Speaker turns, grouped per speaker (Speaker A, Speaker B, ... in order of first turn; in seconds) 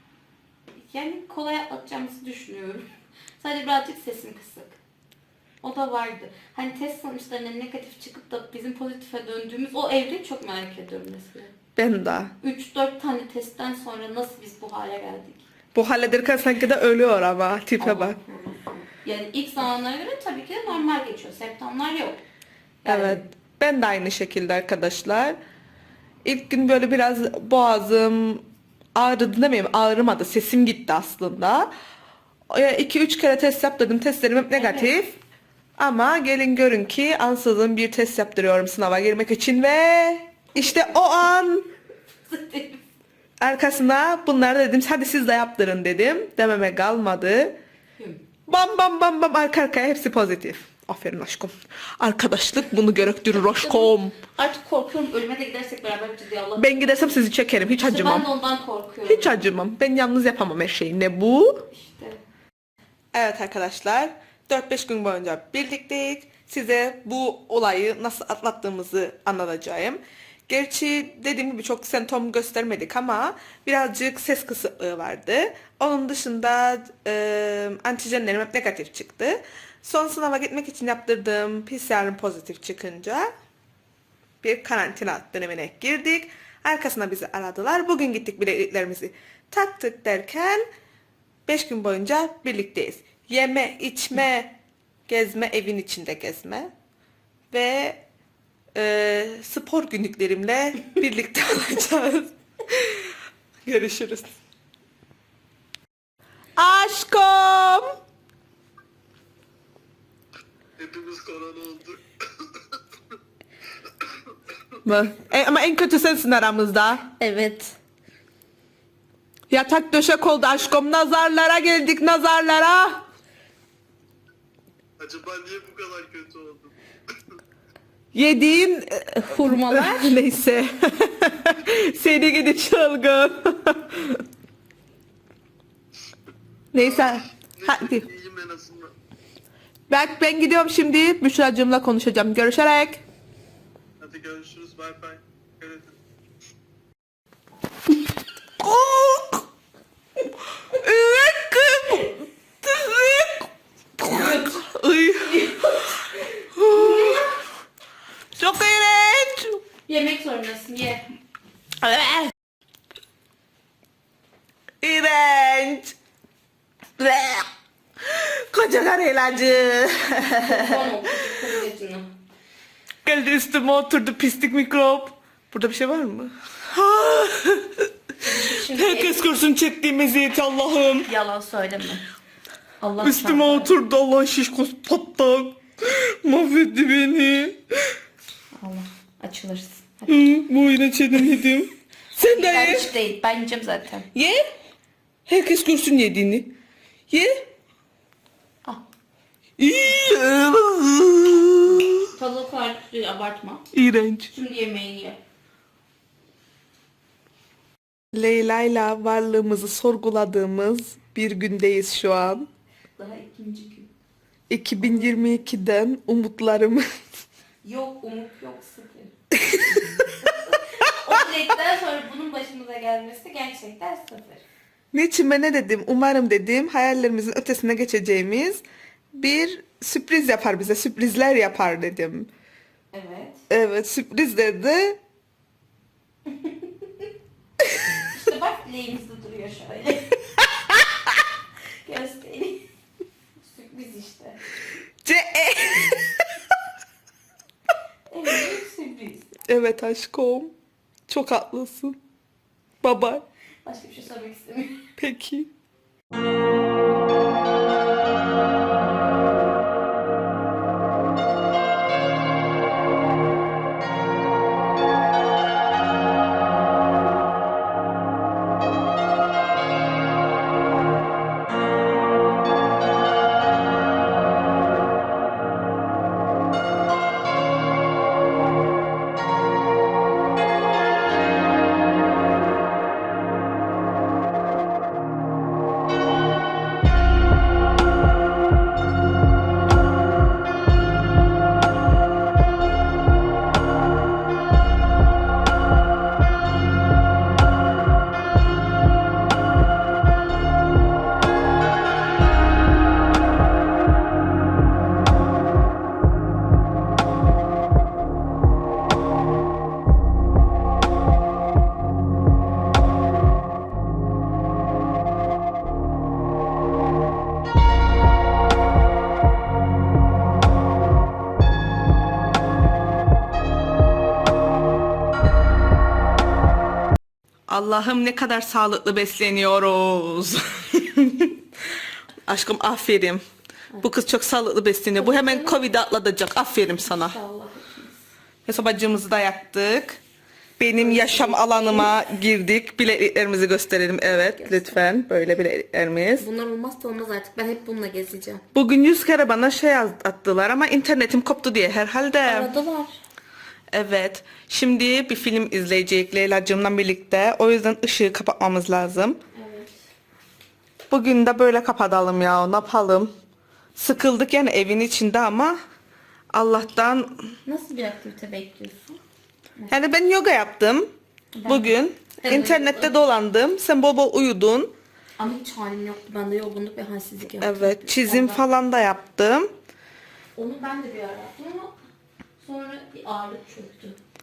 Speaker A: 0.8-2.9, 3.4-4.8, 5.6-11.5, 12.4-15.4, 17.8-22.2, 22.8-23.2, 34.5-35.0, 40.5-41.2, 42.3-42.8, 53.3-59.5, 61.7-62.2, 117.2-117.7, 129.3-130.2, 154.0-157.4, 159.9-161.1, 170.4-172.1, 178.2-179.2, 181.0-182.1, 182.8-183.7, 188.6-190.3, 192.2-194.1, 202.1-203.7, 204.3-205.2, 213.0-213.9, 214.8-215.4, 217.6-224.4, 232.9-233.4, 236.2-237.1, 237.9-240.2, 241.8-242.6, 243.4-244.4, 248.1-249.3, 253.6-254.8, 334.9-335.6, 336.8-338.0, 340.8-341.9, 344.0-344.8, 346.2-348.4, 352.2-353.0, 359.3-359.8, 367.4-369.0, 371.3-372.9, 375.2-378.4, 380.4-381.7, 382.4-384.0
Speaker B: 11.8-12.3, 15.7-18.1, 22.9-25.4, 26.2-31.7, 32.5-35.1, 35.8-41.7, 43.4-47.6, 48.5-54.2, 56.6-58.3, 59.0-61.7, 63.1-83.3, 84.4-90.6, 91.5-96.7, 97.5-98.0, 98.7-103.1, 103.7-104.3, 106.6-107.9, 114.8-117.1, 119.5-123.0, 128.1-134.2, 136.7-138.1, 139.9-143.0, 148.6-149.4, 150.6-153.5, 154.0-155.7, 156.5-157.3, 158.3-159.6, 161.8-162.3, 164.8-165.9, 167.0-167.5, 168.0-171.3, 173.0-177.8, 178.6-181.1, 183.0-187.7, 190.1-192.9, 194.1-194.4, 195.3-196.5, 197.1-197.4, 199.6-202.1, 203.7-204.3, 208.1-212.5, 214.5-216.8, 219.3-220.2, 224.9-228.6, 229.1-232.3, 233.5-235.0, 240.4-240.8, 245.0-246.3, 249.4-250.5, 251.1-252.0, 252.8-253.2, 255.0-255.5, 327.5-331.4, 332.2-333.2, 333.8-337.2, 338.5-340.0, 340.6-346.3, 348.5-352.5, 353.7-359.2, 360.9-363.1, 363.8-365.6, 366.3-367.3, 369.7-370.9, 371.5-374.7, 377.4-379.5
Speaker C: 110.8-112.5, 125.0-126.7, 137.6-138.9, 144.0-145.8